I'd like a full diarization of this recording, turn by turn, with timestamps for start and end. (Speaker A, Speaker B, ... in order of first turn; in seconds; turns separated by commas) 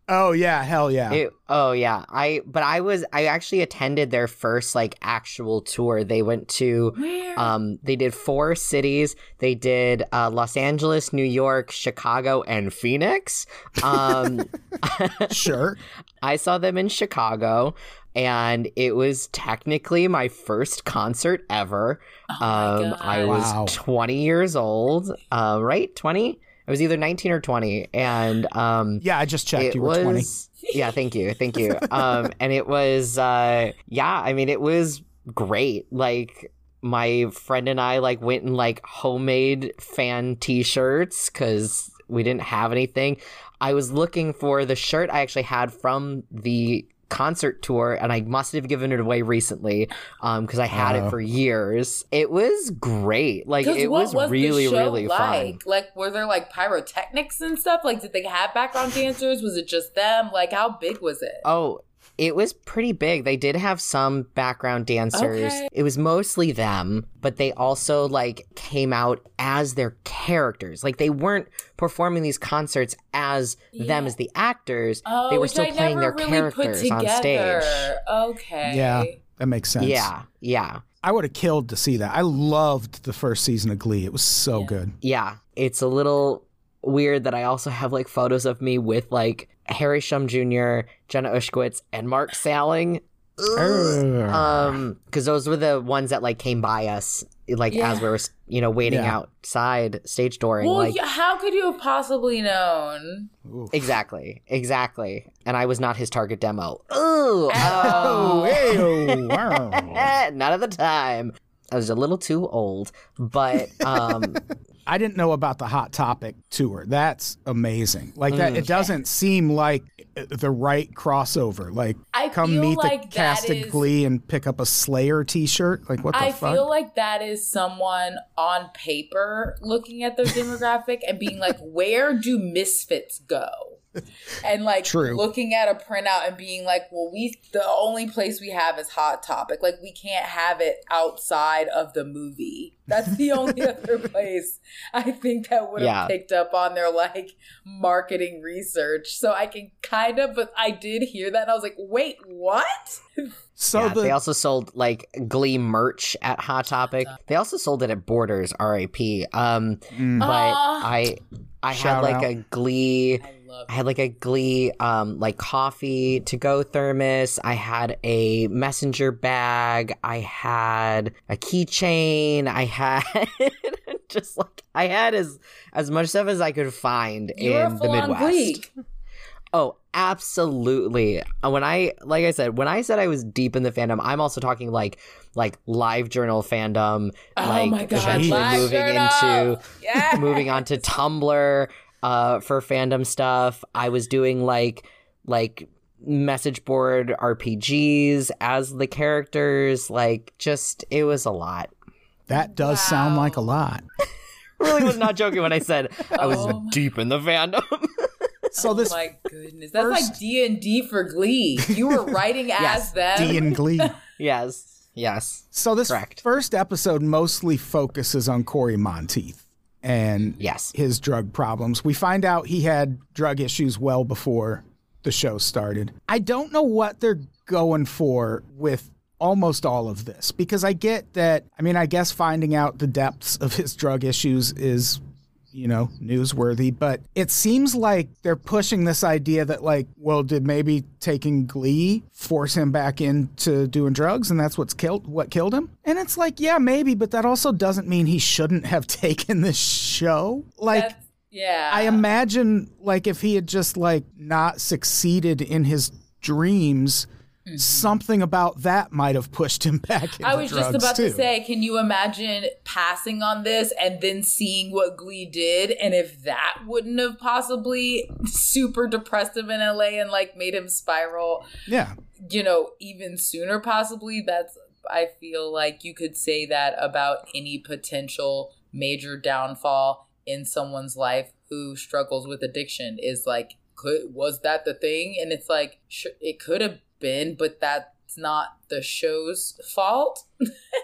Speaker A: 0.1-1.2, Speaker B: 1.1-15.6, Speaker C: 6.9-7.5, Speaker A: 15.3-15.8, Speaker B: 16.2-55.6, Speaker C: 22.3-23.5, Speaker A: 23.2-23.8, Speaker A: 29.0-30.3, Speaker A: 50.7-51.2, Speaker C: 53.6-61.4, Speaker B: 61.4-77.9, Speaker C: 65.1-65.7, Speaker C: 73.7-74.1, Speaker C: 75.0-79.2, Speaker A: 78.7-80.1, Speaker B: 79.8-80.8, Speaker A: 81.0-84.9, Speaker B: 85.0-101.0, Speaker A: 93.5-94.8, Speaker C: 97.7-98.1, Speaker A: 98.8-99.2, Speaker C: 100.6-103.3, Speaker A: 103.5-103.9, Speaker B: 103.7-114.4, Speaker C: 107.5-108.6, Speaker A: 107.6-110.1, Speaker A: 113.8-126.7, Speaker B: 118.3-118.8, Speaker C: 122.1-123.9, Speaker C: 126.1-133.8, Speaker C: 134.4-153.3, Speaker A: 134.8-135.2, Speaker B: 145.8-146.1, Speaker A: 153.6-154.2, Speaker B: 153.7-178.7, Speaker C: 156.9-157.2, Speaker A: 159.9-160.3, Speaker C: 160.2-161.1, Speaker A: 161.7-162.3, Speaker C: 163.2-163.7, Speaker C: 177.3-178.7, Speaker B: 179.5-201.7, Speaker C: 187.4-190.6, Speaker A: 187.9-188.7, Speaker A: 202.3-203.8, Speaker C: 202.3-203.4, Speaker B: 204.6-208.1, Speaker A: 204.7-205.0, Speaker C: 206.1-206.8, Speaker A: 206.2-206.5, Speaker A: 208.5-209.0, Speaker C: 208.6-213.9, Speaker A: 209.8-210.2, Speaker A: 211.7-211.9, Speaker A: 212.6-213.9, Speaker B: 214.2-216.2, Speaker A: 215.5-235.0, Speaker B: 220.4-220.7, Speaker A: 235.5-250.9, Speaker C: 250.7-252.0, Speaker A: 251.7-261.3, Speaker C: 257.5-257.9, Speaker C: 260.2-271.4, Speaker A: 271.7-272.0, Speaker C: 272.2-290.3